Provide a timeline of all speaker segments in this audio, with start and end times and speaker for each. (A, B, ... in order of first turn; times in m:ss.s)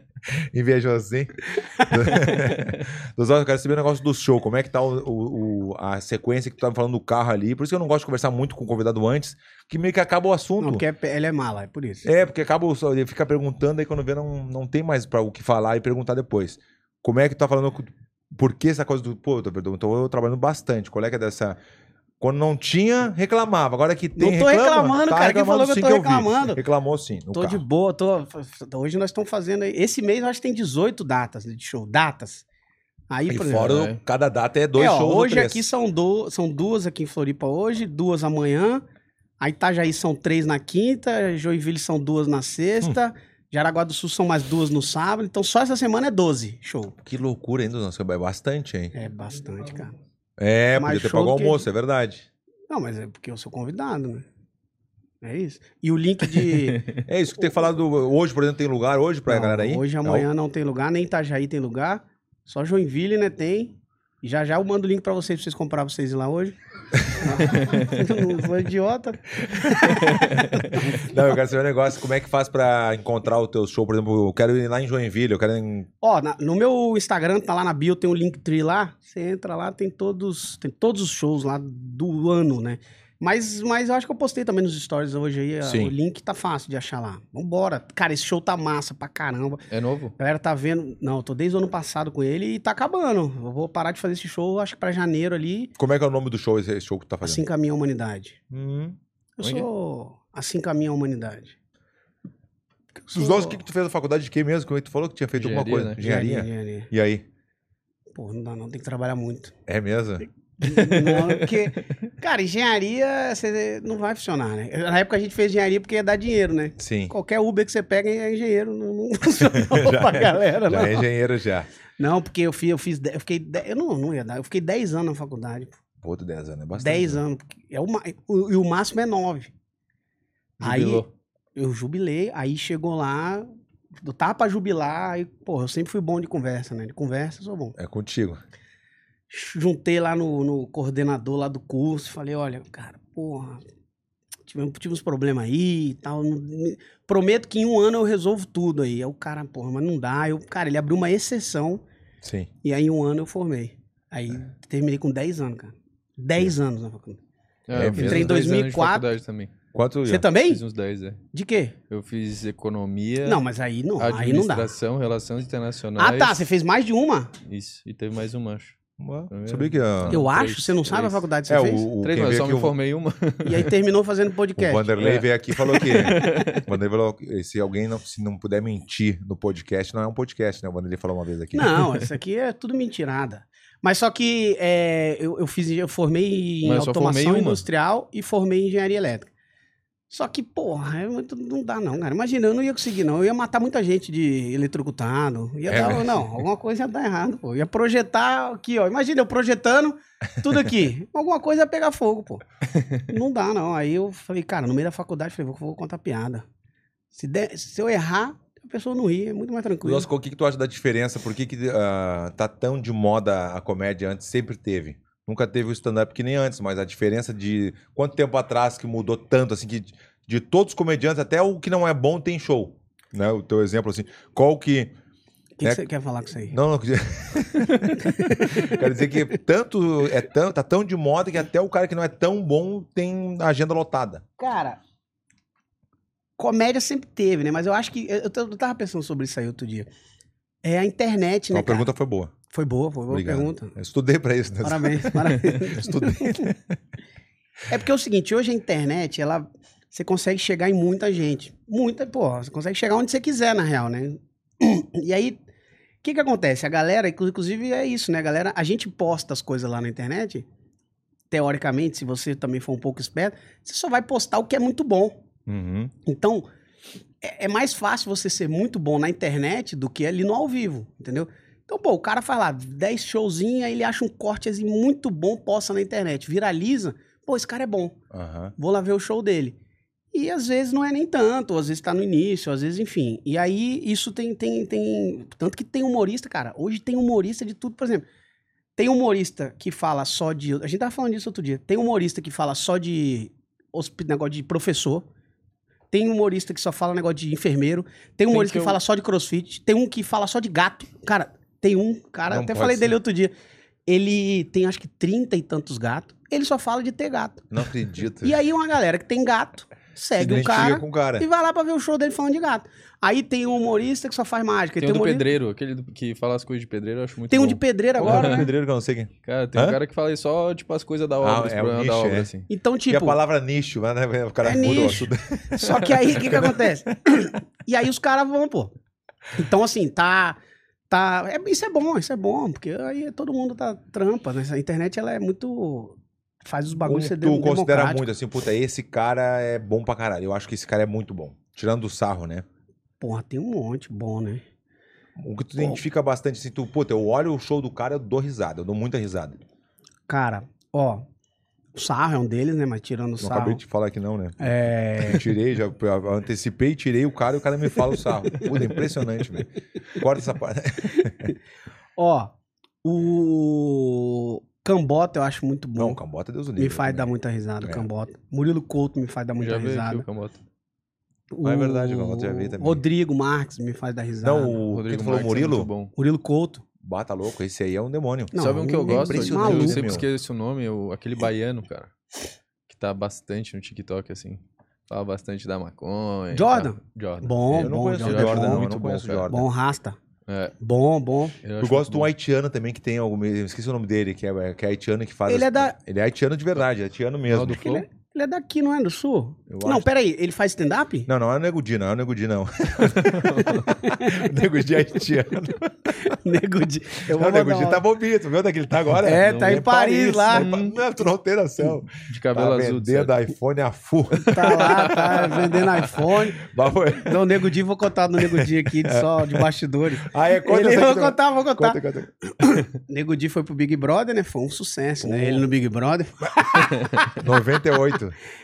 0:00.5-0:10.8 A
0:01.6-0:02.3 B
0:10.6-0:12.1 B
0:12.0-0:21.6 A
0:22.2-0:27.6 A
0:24.2-0:26.6 B
0:27.3-0:32.4 B
0:33.1-0:33.9 B
0:33.3-0:35.7 A
0:33.7-0:33.9 C
0:34.7-0:38.8 B
0:39.4-0:46.9 B
0:47.0-0:49.0 A
0:48.9-0:49.9 B
0:50.4-0:52.3 A
0:50.8-0:51.6 B
0:52.7-0:54.2 B
0:55.2-0:56.8 B
0:56.6-0:56.9 C
0:57.0-1:00.3 A
0:59.3-1:11.2 B
1:07.5-1:07.8 C
1:09.5-1:09.9 A
1:09.9-1:10.8 C
1:10.8-1:15.9 A
1:16.0-1:29.6 B
1:25.6-1:25.9 A
1:29.7-1:30.1 C
1:30.2-1:35.7 B
1:35.8-1:37.4 A
1:37.2-1:38.4 B
1:38.5-1:39.0 A
1:39.4-1:41.6 B
1:39.4-1:39.7 C
1:43.0-1:43.6 B
1:43.1-1:47.2 A
1:45.4-1:46.0 C
1:46.0-1:46.9 B
1:48.1-1:49.5 B
1:49.7-1:50.3 A
1:50.6-2:01.1 B
1:50.6-1:51.6 C
1:56.8-1:57.1 A
1:59.4-2:01.7 A
2:02.0-2:05.8 B
2:06.0-2:07.2 A
2:06.8-2:09.5 B
2:10.6-2:11.1 C
2:10.6-2:11.0 B
2:11.6-2:17.8 B
2:17.8-2:18.4 A
2:19.3-2:23.6 B
2:24.4-2:31.8 B
2:32.2-2:32.5 A
2:32.6-2:37.2 B
2:37.7-2:39.5 C
2:37.7-2:38.3 A
2:37.8-2:39.1 B
2:39.7-2:40.3 A
2:40.1-2:40.6 B
2:40.4-2:41.2 C
2:41.3-2:41.7 B
2:41.9-2:43.4 C
2:43.2-2:44.7 B
2:44.0-2:46.4 C
2:46.0-2:47.3 B
2:47.4-2:48.8 C
2:49.0-2:50.2 A
2:49.3-2:51.2 C
2:50.1-2:51.9 B
2:51.5-2:52.7 A
2:52.0-2:53.7 C
2:53.4-2:55.0 B
2:54.6-3:01.9 A
2:55.0-2:56.6 C
2:55.8-2:56.5 B
3:01.5-3:09.3 B
3:06.6-3:07.6 C
3:10.1-3:22.4 B
3:15.7-3:16.3 A
3:22.7-3:23.0 C
3:23.1-3:26.4 B
3:27.1-3:30.1 B
3:29.8-3:44.9 A
3:45.6-3:46.6 B
3:46.4-3:54.2 A
3:48.0-3:49.2 B
3:54.4-3:54.8 B
3:56.4-3:59.9 B
4:00.6-4:01.9 B
4:01.5-4:02.3 A
4:02.5-4:03.7 B
4:03.1-4:06.8 A
4:04.6-4:06.5 B
4:07.7-4:15.4 B
4:16.0-4:20.4 B
4:21.3-4:25.2 B
4:25.5-4:25.9 A
4:26.0-4:26.4 B
4:27.2-4:38.0 B
4:38.1-4:38.5 A
4:38.6-4:39.6 B
4:40.1-4:48.0 B
4:48.8-4:55.1 B
4:55.9-5:03.3 B
4:58.3-4:58.8 C
5:02.3-5:02.9 A
5:03.9-5:07.5 B
5:07.5-5:08.4 A
5:08.2-5:15.2 B
5:10.2-5:11.3 A
5:10.2-5:10.8 C
5:14.8-5:18.5 C
5:17.3-5:18.5 B
5:18.0-5:19.8 A
5:19.2-5:22.5 C
5:21.2-5:22.3 A
5:22.5-5:23.2 B
5:22.9-5:26.5 A
5:24.4-5:28.7 B
5:29.3-5:38.1 B
5:36.8-5:42.4 A
5:43.0-5:44.4 B
5:45.2-5:49.4 A
5:50.1-5:51.0 B
5:51.7-5:53.6 B
5:53.2-6:01.3 A
5:54.4-5:55.3 B
6:00.9-6:01.4 B
6:02.0-6:06.0 B
6:05.8-6:07.8 A
6:06.6-6:10.0 B
6:09.4-6:10.4 C
6:11.3-6:14.6 B
6:11.4-6:12.8 A
6:14.2-6:15.7 A
6:14.7-6:15.9 C
6:16.0-6:16.6 B
6:16.8-6:20.0 A
6:18.3-6:20.0 B
6:18.4-6:21.9 C
6:22.7-6:29.2 C
6:26.3-6:30.0 B
6:27.5-6:29.5 A
6:30.3-6:30.5 C
6:30.6-6:31.4 B
6:31.4-6:32.1 C
6:31.6-6:37.6 A
6:35.3-6:35.7 B
6:37.3-6:37.8 C
6:37.5-6:41.1 B
6:39.5-6:39.8 C
6:41.1-6:46.2 A
6:42.9-6:43.7 C
6:43.8-6:44.3 B
6:46.0-6:47.8 B
6:47.1-6:54.5 A
6:49.0-6:50.5 B
6:49.2-6:49.7 C
6:50.3-6:50.7 C
6:51.9-6:53.2 C
6:54.3-6:56.4 B
6:54.4-6:56.0 C
6:56.4-6:57.5 A
6:56.9-7:07.1 B
6:58.2-6:59.5 A
7:00.0-7:02.1 A
7:05.0-7:05.4 A
7:06.8-7:07.1 C
7:07.1-7:08.1 A